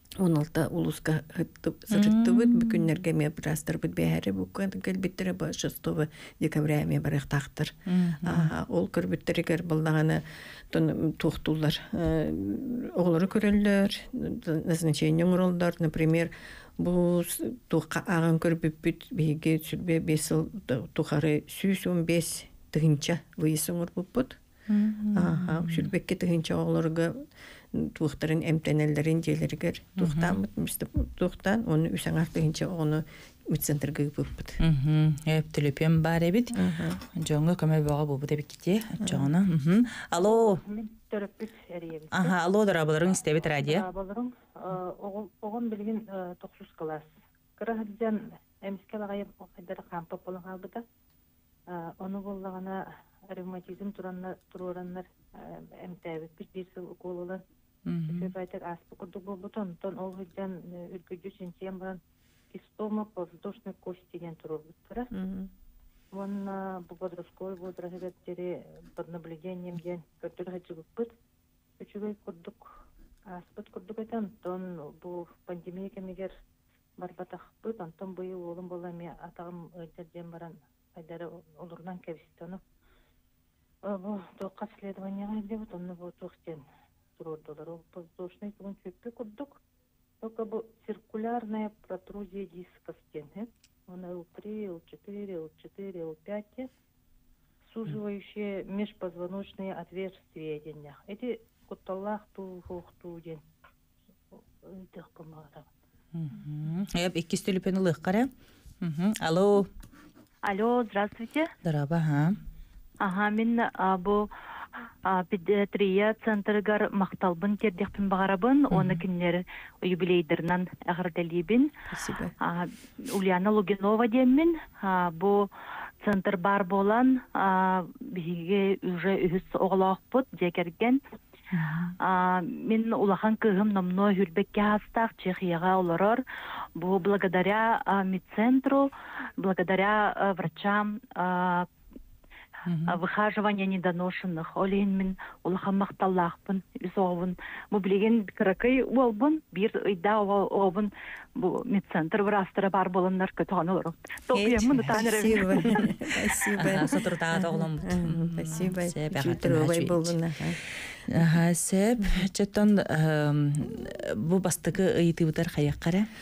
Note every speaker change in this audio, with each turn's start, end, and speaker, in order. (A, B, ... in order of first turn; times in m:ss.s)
0:00.2-0:24.4 A
0:01.9-0:02.8 B
0:07.9-0:08.5 B
0:24.7-0:25.9 B
0:25.1-0:34.6 A
0:30.0-0:30.4 B
0:34.6-0:36.6 B
0:36.5-0:37.0 A
0:37.1-0:40.6 B
0:39.0-0:39.3 A
0:40.2-0:42.4 C
0:42.1-0:43.8 B
0:43.5-0:50.8 C
0:51.7-0:57.4 C
0:57.8-0:58.3 B
0:58.1-1:02.0 C
1:02.5-1:05.1 C
1:05.1-1:05.5 A
1:06.1-1:11.1 C
1:11.8-1:12.6 C
1:13.3-1:16.3 C
1:17.0-1:22.6 C
1:23.8-1:26.6 C
1:27.2-1:29.6 C
1:30.2-1:36.7 C
1:37.7-1:43.4 C
1:44.3-1:45.7 C
1:46.1-1:49.7 B
1:50.4-1:51.5 D
1:51.6-1:52.4 B
1:53.0-1:54.2 D
1:55.0-2:01.7 D
1:58.7-1:59.0 B
2:01.9-2:02.3 A
2:02.4-2:05.5 D
2:06.0-2:11.0 D
2:11.5-2:11.9 B
2:11.8-2:16.2 D
2:16.8-2:18.9 D
2:19.4-2:21.7 D
2:22.6-2:23.0 B
2:22.8-2:35.8 D
2:34.3-2:35.9 B
2:34.9-2:40.6 A
2:36.6-2:40.2 B
2:41.1-2:46.1 B